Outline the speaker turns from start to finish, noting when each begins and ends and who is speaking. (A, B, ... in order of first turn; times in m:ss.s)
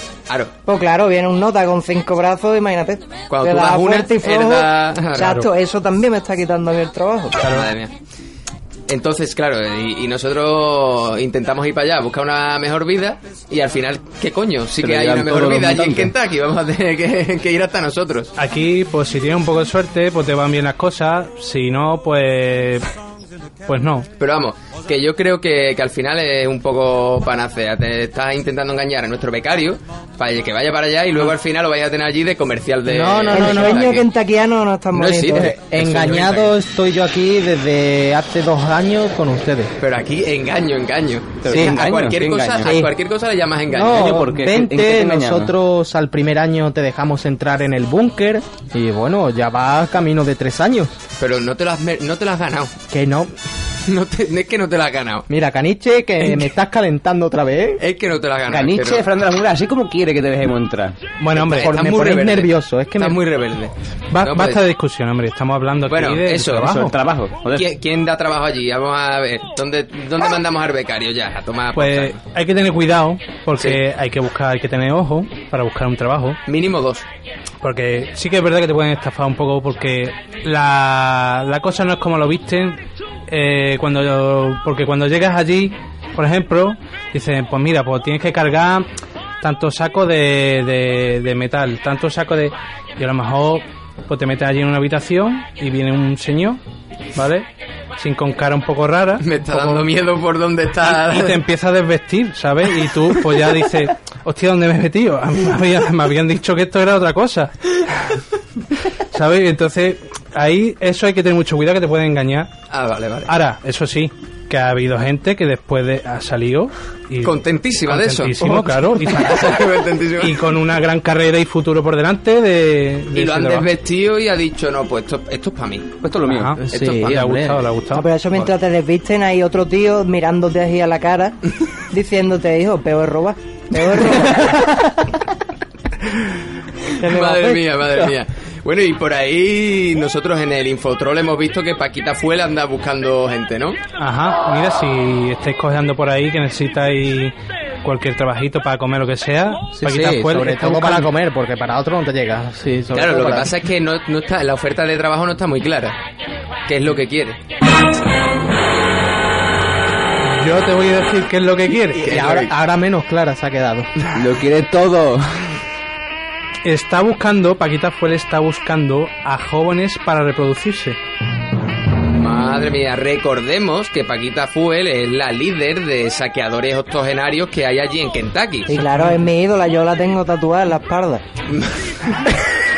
0:00.3-0:00.5 A
0:00.6-0:07.4 B
0:03.3-0:05.4 A
0:07.4-0:07.7 C
0:07.4-0:07.9 A
0:08.9-0:18.3 A
0:14.8-0:16.1 D
0:18.4-0:22.9 C
0:23.7-0:24.1 C
0:24.2-0:34.1 A
0:32.9-0:34.0 E
0:33.3-0:35.5 B
0:34.9-0:36.5 A
0:35.3-0:39.7 E
0:39.8-0:44.2 A
0:41.4-0:42.8 D
0:42.6-0:42.9 E
0:43.7-0:51.0 E
0:43.8-0:45.6 D
0:51.2-0:52.7 A
0:52.9-0:53.3 E
0:53.9-0:55.3 A
0:55.3-0:57.8 E
0:57.8-0:59.0 A
0:58.5-1:01.0 D
1:01.2-1:01.7 C
1:01.3-1:04.6 A
1:01.5-1:03.2 E
1:04.1-1:07.0 C
1:05.9-1:06.8 A
1:06.6-1:07.7 D
1:07.5-1:12.2 A
1:11.7-1:16.4 C
1:16.4-1:17.0 A
1:17.6-1:28.9 C
1:29.4-1:36.6 C
1:37.1-1:39.9 C
1:39.2-1:41.4 A
1:40.9-1:48.2 C
1:49.1-1:52.5 C
1:52.7-1:53.3 A
1:53.3-1:59.6 C
1:57.2-2:00.4 A
2:00.2-2:03.7 C
2:03.1-2:06.0 A
2:06.0-2:06.6 D
2:06.3-2:08.1 C
2:06.6-2:07.6 E
2:06.7-2:07.2 A
2:07.9-2:11.4 B
2:11.9-2:14.7 B
2:17.0-2:17.7 B
2:17.0-2:23.8 A
2:24.0-2:31.1 C
2:29.7-2:33.5 E
2:32.9-2:36.0 A
2:36.7-2:37.4 A
2:40.3-2:42.0 C
2:42.0-2:42.5 A
2:42.0-2:43.9 E
2:44.1-2:45.6 D
2:46.6-2:51.0 C
2:52.1-2:58.8 A
2:58.7-3:01.2 B
2:58.8-2:59.1 C
3:01.5-3:01.9 A